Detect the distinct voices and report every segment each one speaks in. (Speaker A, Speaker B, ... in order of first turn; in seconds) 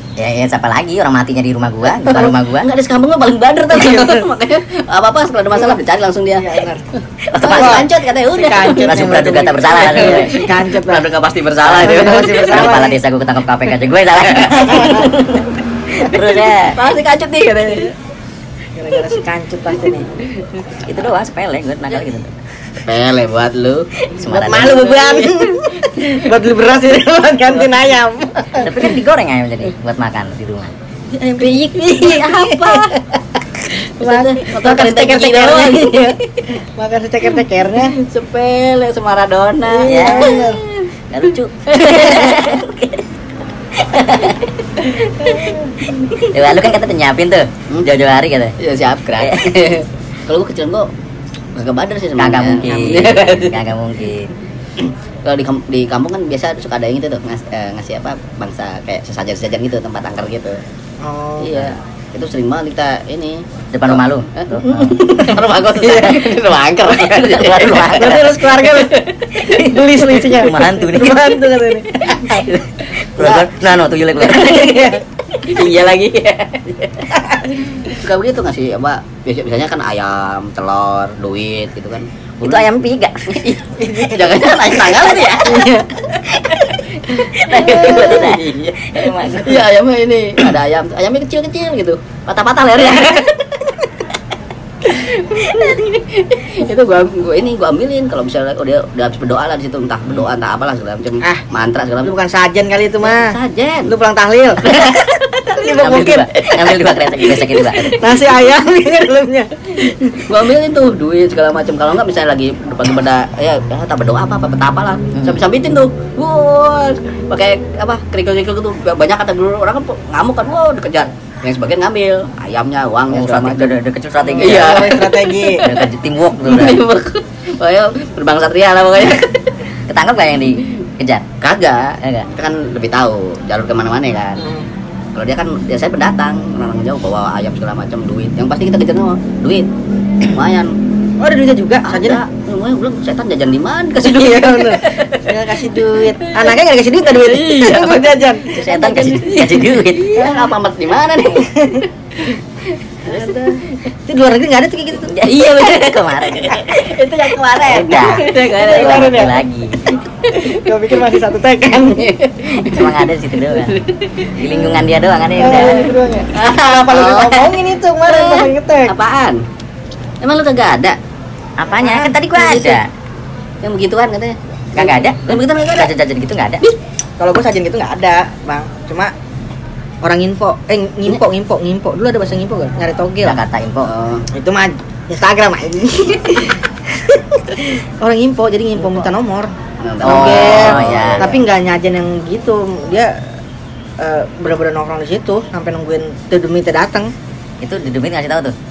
Speaker A: 0.2-2.7, 7.3-7.8, 8.7-10.3, 11.6-16.8, 20.8-22.3, 24.1-24.8, 28.5-30.7, 39.9-40.4, 41.1-43.0, 43.8-44.5, 46.1-48.5, 49.2-49.6, 52.2-54.3, 63.7-65.1, 67.0-68.4, 69.4-71.4, 72.1-75.0, 82.4-83.5, 84.7-85.3, 86.3-89.7, 105.8-107.9, 115.1-115.4, 123.1-125.0, 125.6-126.8, 129.9-131.2, 132.0-132.3, 148.5-150.3, 155.1-156.9, 157.7-159.8, 162.5-163.8, 164.3-165.9, 171.6-172.8, 174.8-176.6, 183.2-183.9, 190.0-191.3, 197.6-198.5
Speaker B: 1.8-12.8, 16.7-17.9, 22.8-26.1, 31.4-33.0, 33.7-36.5, 37.7-40.8, 41.7-42.7, 48.6-50.9, 51.5-53.6, 54.8-60.6, 61.4-69.2, 74.2-74.8, 75.4-77.1, 77.7-82.6, 83.3-86.2, 87.1-93.7, 94.8-102.1, 103.0-103.9, 104.6-108.3, 110.2-123.7, 124.4-125.7, 126.4-129.5, 131.4-134.4, 135.1-139.7, 140.2-140.7, 141.8-146.6, 147.1-151.8, 152.8-153.8, 155.2-159.3, 159.8-161.0, 161.8-164.8, 165.5-169.4, 170.2-171.0, 172.3-172.8, 173.6-175.9, 183.9-184.2, 189.8-191.4
Speaker C: 3.7-4.2, 6.3-6.9, 7.4-11.1, 11.7-13.0, 14.6-15.1, 18.8-20.1, 24.3-28.9, 31.1-38.0, 39.6-40.6, 45.3-45.9, 61.0-61.7, 64.5-66.2, 67.9-72.5, 73.2-73.5, 74.5-75.0, 83.8-84.7, 85.4-85.8, 87.5-88.2, 102.0-104.6, 105.5-106.2, 107.8-110.3, 124.2-125.7, 134.4-134.7, 141.2-142.2, 144.0-148.5, 150.2-150.5, 151.3-151.8, 153.1-153.5, 154.1-155.1, 157.8-159.3, 160.4-162.1, 165.4-168.9, 171.8-172.1, 177.2-179.1, 180.0-183.4, 184.3-193.1, 194.0-197.1